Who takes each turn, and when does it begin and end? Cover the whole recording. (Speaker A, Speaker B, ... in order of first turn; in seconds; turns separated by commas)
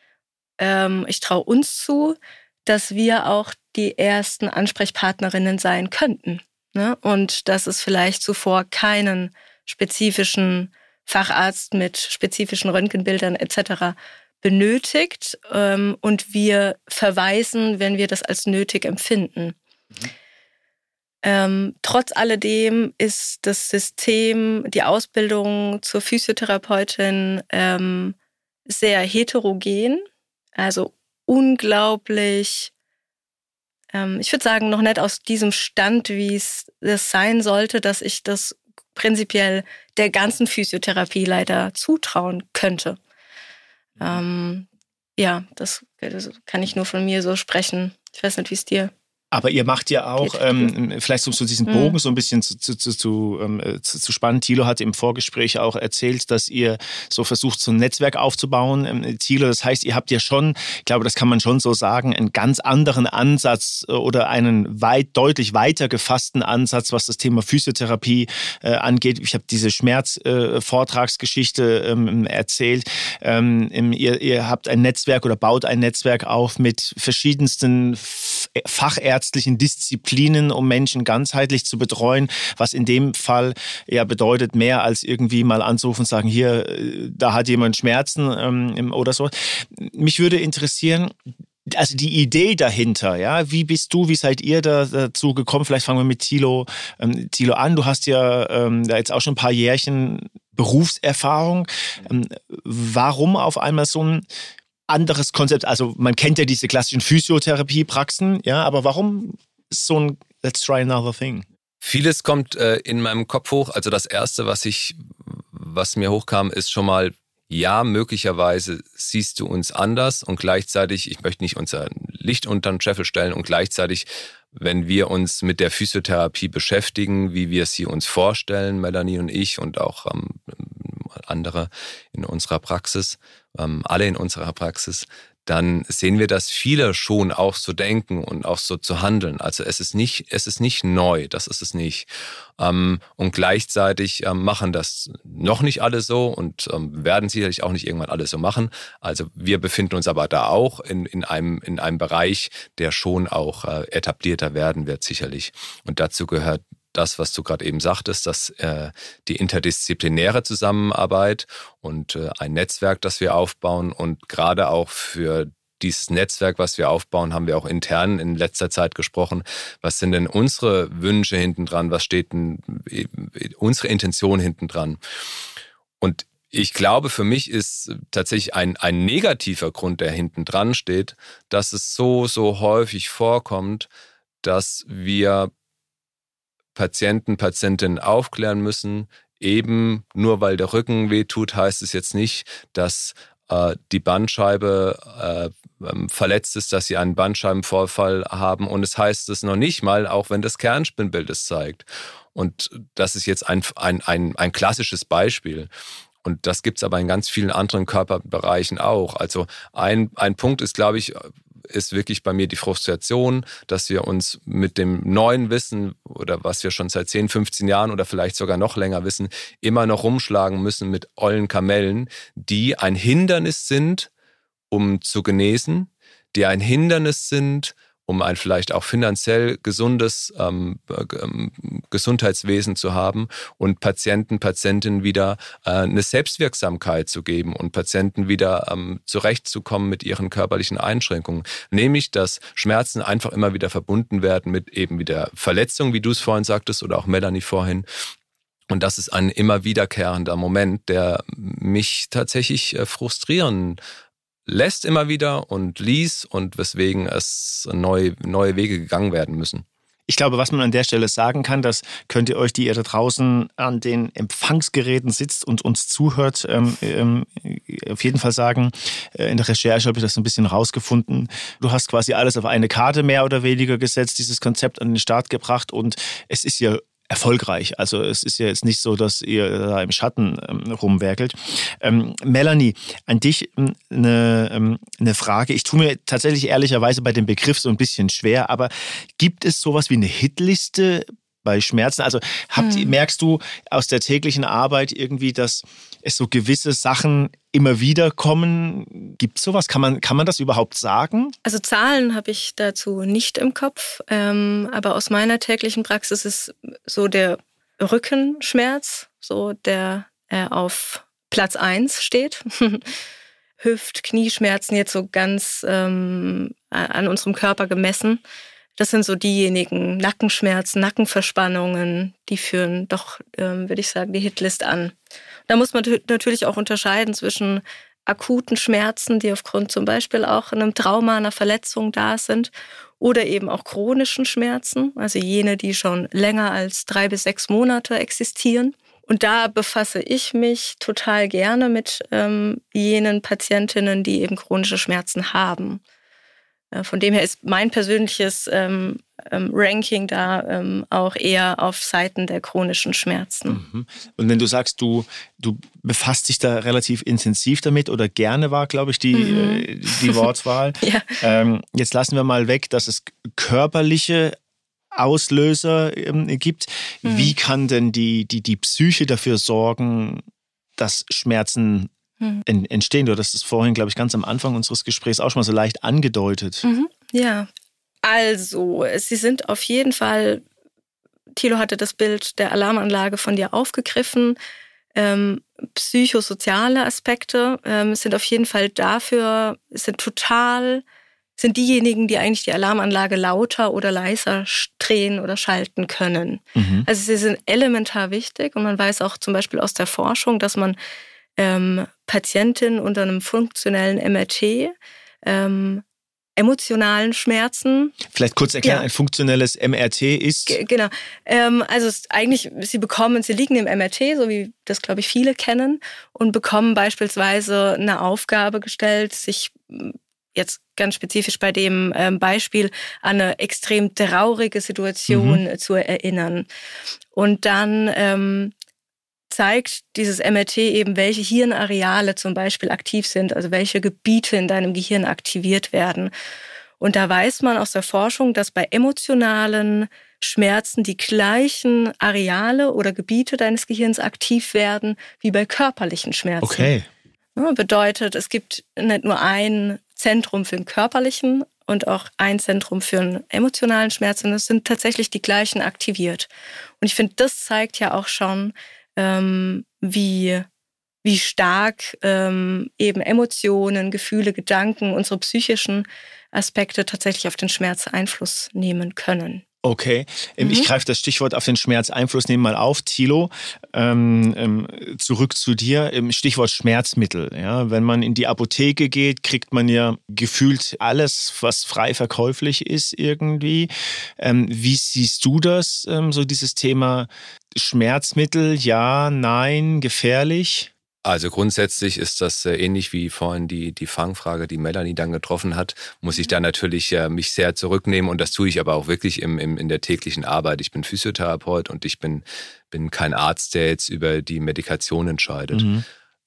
Speaker A: 0.6-19.6, Speaker A: 21.2-28.2, Speaker A: 28.7-30.1, Speaker A: 30.6-32.7, Speaker A: 33.9-43.0, Speaker A: 44.0-44.7, Speaker A: 45.2-48.9, Speaker B: 49.3-104.2, Speaker A: 50.2-50.7, Speaker A: 51.7-52.0, Speaker B: 104.9-111.5, Speaker C: 111.8-142.1, Speaker C: 142.6-175.0, Speaker C: 176.0-183.9, Speaker C: 184.4-185.5, Speaker C: 186.8-205.7, Speaker C: 206.2-224.1, Speaker C: 224.7-247.8, Speaker C: 248.7-253.8, Speaker C: 254.5-259.6, Speaker B: 260.1-301.3, Speaker A: 292.6-292.9, Speaker A: 301.4-312.9, Speaker A: 313.6-318.2, Speaker A: 318.8-324.9, Speaker A: 325.5-345.8, Speaker A: 346.7-353.6, Speaker B: 353.5-364.4, Speaker A: 359.1-360.2, Speaker A: 360.8-361.2, Speaker B: 364.9-370.2, Speaker A: 367.1-367.3, Speaker B: 370.8-371.9, Speaker B: 372.4-376.6, Speaker A: 376.6-377.5, Speaker A: 378.0-380.4, Speaker A: 381.3-384.4, Speaker A: 384.9-390.8, Speaker A: 391.4-400.8, Speaker B: 396.6-396.9, Speaker A: 401.4-405.8, Speaker A: 406.4-408.0, Speaker B: 408.1-410.6, Speaker A: 410.5-426.5, Speaker B: 425.1-425.4, Speaker A: 427.1-428.5, Speaker A: 429.3-436.1, Speaker A: 436.8-446.7, Speaker B: 446.4-446.9, Speaker A: 447.4-456.3, Speaker A: 456.8-460.5, Speaker A: 461.0-469.4, Speaker B: 469.6-490.7, Speaker A: 470.4-470.7, Speaker C: 491.0-505.7, Speaker B: 505.5-505.8